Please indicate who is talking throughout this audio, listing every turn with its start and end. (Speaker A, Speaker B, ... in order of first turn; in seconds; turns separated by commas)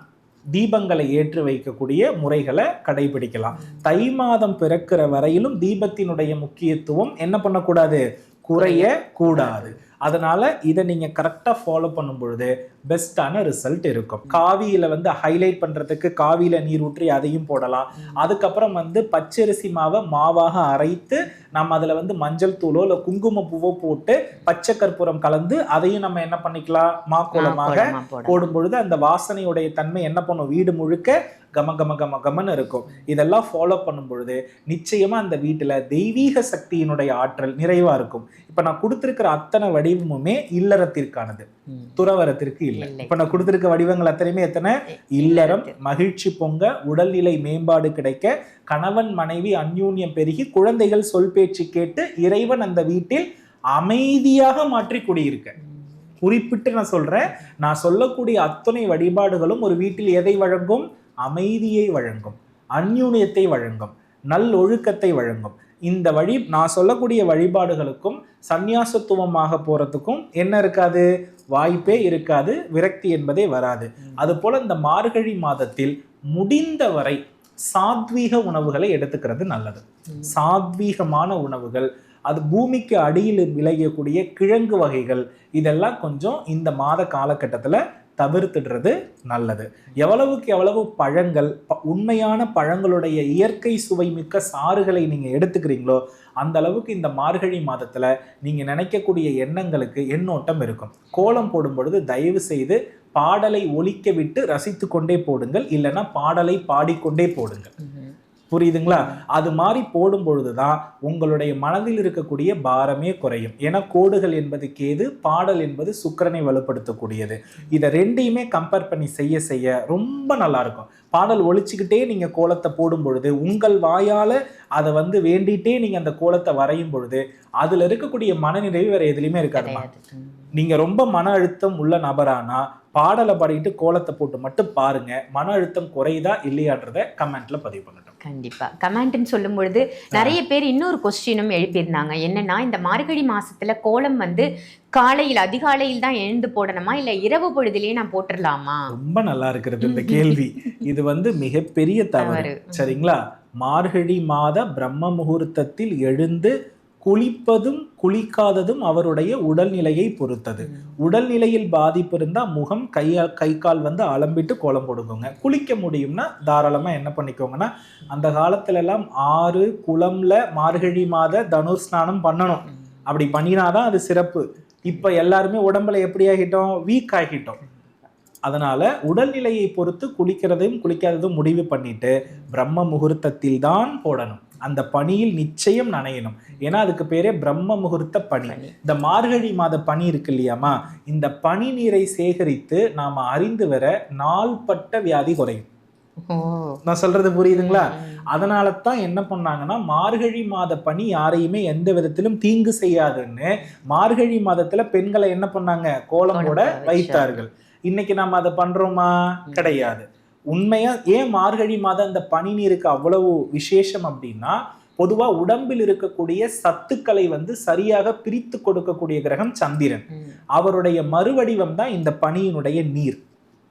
Speaker A: 0.6-55.5, Speaker B: 8.6-9.7, Speaker B: 27.3-28.4, Speaker B: 41.7-42.0, Speaker B: 42.8-43.5, Speaker B: 45.2-45.7, Speaker A: 56.2-77.2, Speaker A: 77.7-107.7, Speaker B: 101.2-101.4, Speaker B: 107.8-108.1, Speaker A: 108.5-129.8, Speaker B: 108.9-109.2, Speaker B: 129.5-130.4, Speaker A: 130.6-138.2, Speaker B: 138.2-148.9, Speaker A: 148.9-177.6, Speaker B: 149.8-150.8, Speaker B: 152.2-153.0, Speaker B: 160.6-161.0, Speaker A: 178.5-195.7, Speaker B: 188.5-188.7, Speaker B: 196.2-196.8, Speaker A: 196.9-220.0, Speaker B: 197.5-198.2, Speaker B: 206.3-207.4, Speaker B: 209.5-209.9, Speaker A: 220.6-223.2